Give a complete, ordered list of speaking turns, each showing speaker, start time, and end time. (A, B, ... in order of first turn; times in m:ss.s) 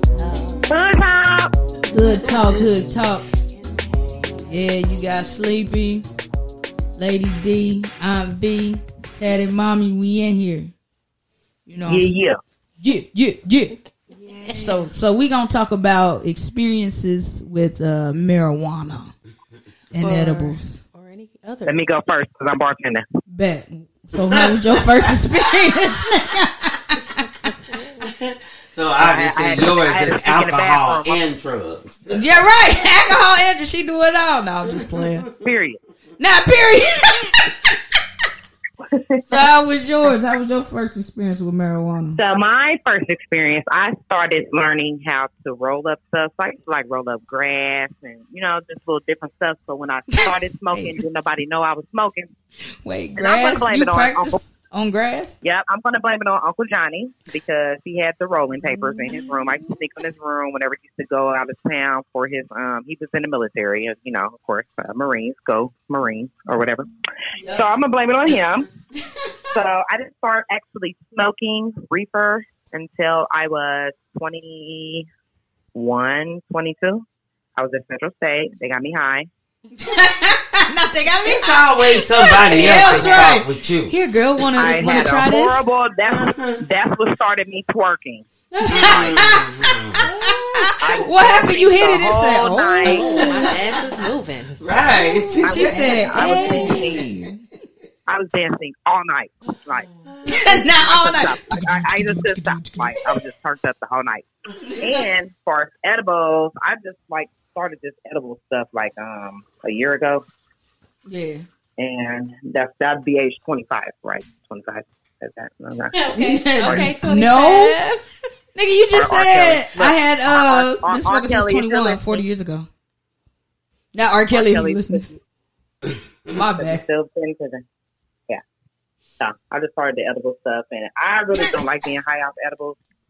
0:00.2-0:00.7 A
0:00.7-0:01.5 B
0:01.9-0:03.3 C
0:02.2-0:02.6 D
0:03.5-0:04.5 D
0:04.5-0:06.1 C
0:07.0-0:10.7 C
0:11.7-0:12.1 C
0:11.8-0:12.4 B
0:12.8-0:13.8 C
0:14.1-0:14.8 D
0:14.5-0:19.1 C
0:19.9-0:20.8 C
0:20.0-0:21.8 A
0:21.6-0:23.0 B
0:23.3-0:27.5 C
0:24.2-0:25.8 D
0:27.7-0:28.0 A
0:28.0-0:32.4 D
0:29.0-0:31.2 B
0:32.1-0:35.2 C
0:35.0-0:35.3 D
0:35.4-0:35.8 B
0:36.2-0:37.8 C
0:38.8-0:39.4 B
0:39.3-0:42.2 C
0:42.2-0:52.3 B
0:52.8-0:55.3 C
0:53.2-0:54.4 B
0:55.4-1:08.7 B
0:58.6-0:59.7 C
1:09.5-1:15.0 B
1:15.7-1:17.0 B
1:17.6-1:19.3 B
1:19.8-1:25.6 C
1:21.2-1:23.9 D
1:22.7-1:23.2 B
1:24.6-1:28.2 B
1:26.1-1:26.6 D
1:28.5-1:33.3 C
1:28.6-1:30.0 D
1:30.0-1:30.4 A
1:30.8-1:33.2 B
1:32.8-1:33.8 D
1:33.1-1:34.6 A
1:34.6-1:37.3 D
1:35.3-1:37.4 C
1:35.4-1:37.0 B
1:38.1-1:39.8 B
1:39.7-1:40.1 A
1:40.2-1:43.1 C
1:40.5-1:50.2 B
1:44.7-1:45.0 C
1:51.1-1:51.4 C
1:51.8-1:56.0 B
1:55.9-1:58.0 A
1:56.1-1:57.7 C
1:56.6-1:56.9 B
1:58.5-2:02.7 C
1:58.9-2:02.2 B
2:03.9-2:05.1 C
2:04.3-2:05.2 B
2:06.3-2:06.8 C
2:06.6-2:07.6 B
2:09.2-2:12.8 B